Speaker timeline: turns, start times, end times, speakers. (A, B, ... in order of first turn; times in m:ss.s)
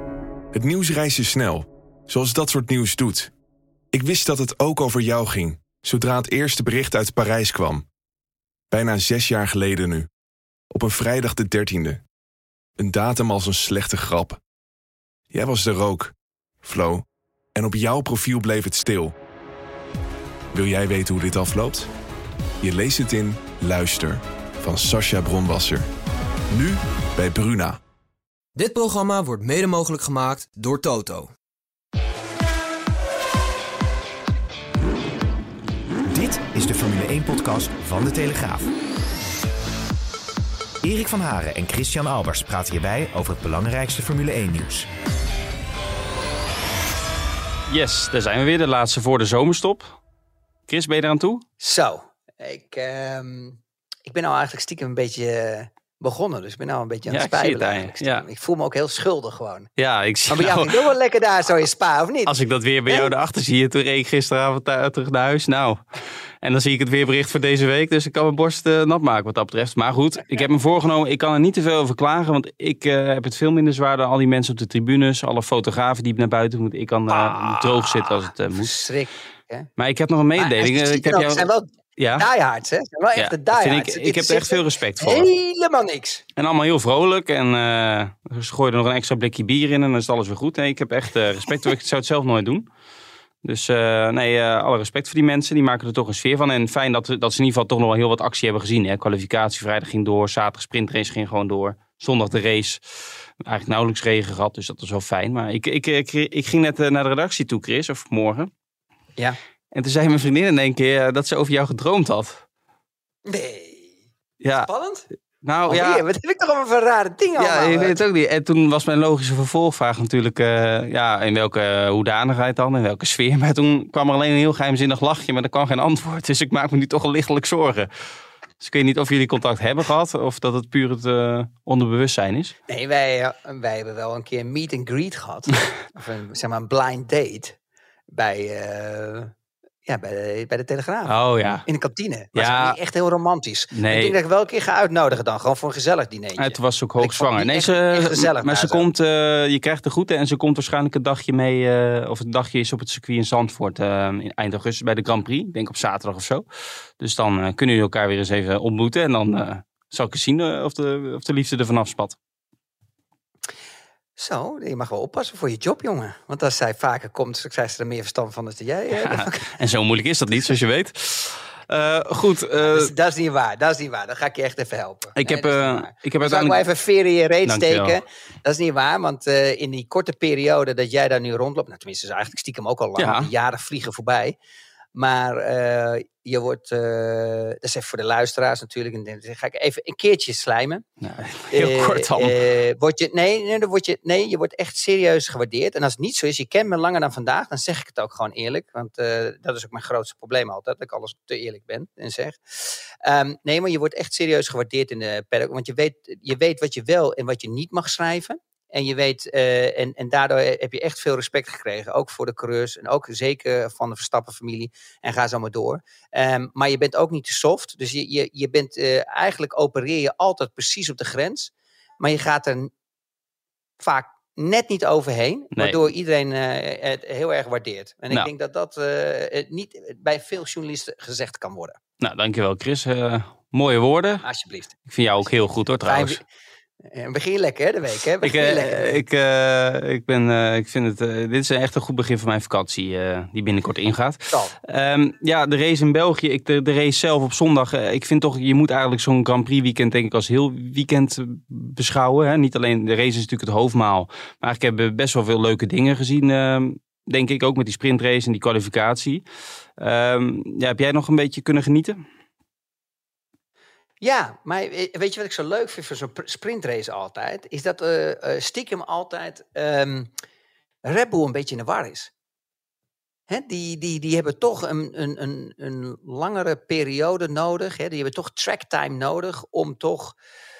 0:00.5-0:03.3 A
0:03.9-0:07.8 A
0:08.7-0:10.1 A
0:10.7-0:12.0 A
0:12.8-0:14.4 A
0:15.3-0:17.0 A
0:17.6-0:19.1 A
0:20.5-0:21.9 A
0:22.6-0:25.9 A
0:26.5-0:27.8 A
0:28.6-0:31.3 B
0:36.0-0:38.7 C
0:40.8-0:44.9 C
0:47.7-0:50.0 D
0:50.7-0:51.4 D
0:51.6-0:59.7 E
0:57.1-0:58.3 D
0:59.8-1:00.9 D
1:00.3-1:02.3 E
1:02.3-1:05.8 D
1:06.4-1:18.9 D
1:17.1-1:19.7 E
1:19.8-1:22.3 D
1:20.4-1:26.2 E
1:23.2-1:25.3 D
1:26.4-1:32.6 D
1:33.4-1:48.5 D
1:49.7-1:52.4 D
1:53.3-1:54.0 E
1:54.4-1:54.7 D
1:54.6-1:55.1 E
1:55.4-1:56.0 D
1:55.7-1:58.0 E
1:57.4-2:07.9 D
2:08.6-2:12.6 D
2:12.7-2:17.6 E
2:18.1-2:19.3 E
2:19.9-2:21.1 E
2:21.1-2:21.7 D
2:21.7-2:28.9 E
2:22.4-2:22.8 D
2:23.7-2:24.2 D
2:26.4-2:36.4 D
2:37.0-2:42.2 D
2:44.2-2:49.5 E
2:48.9-2:52.9 D
2:52.6-3:04.4 E
2:55.2-2:56.6 D
2:57.5-2:58.0 D
3:03.0-3:03.3 D
3:05.0-3:10.8 E
3:11.0-3:12.4 D
3:11.5-3:42.7 E
3:43.8-3:51.8 E
3:52.0-3:54.2 D
3:54.2-3:54.8 E
3:54.9-3:56.2 D
3:55.8-3:56.2 E
3:56.9-3:59.0 E
3:58.2-4:19.2 D
4:04.3-4:04.6 E
4:19.8-4:22.0 D
4:24.0-4:30.1 E
4:30.8-4:32.1 E
4:33.3-4:40.2 E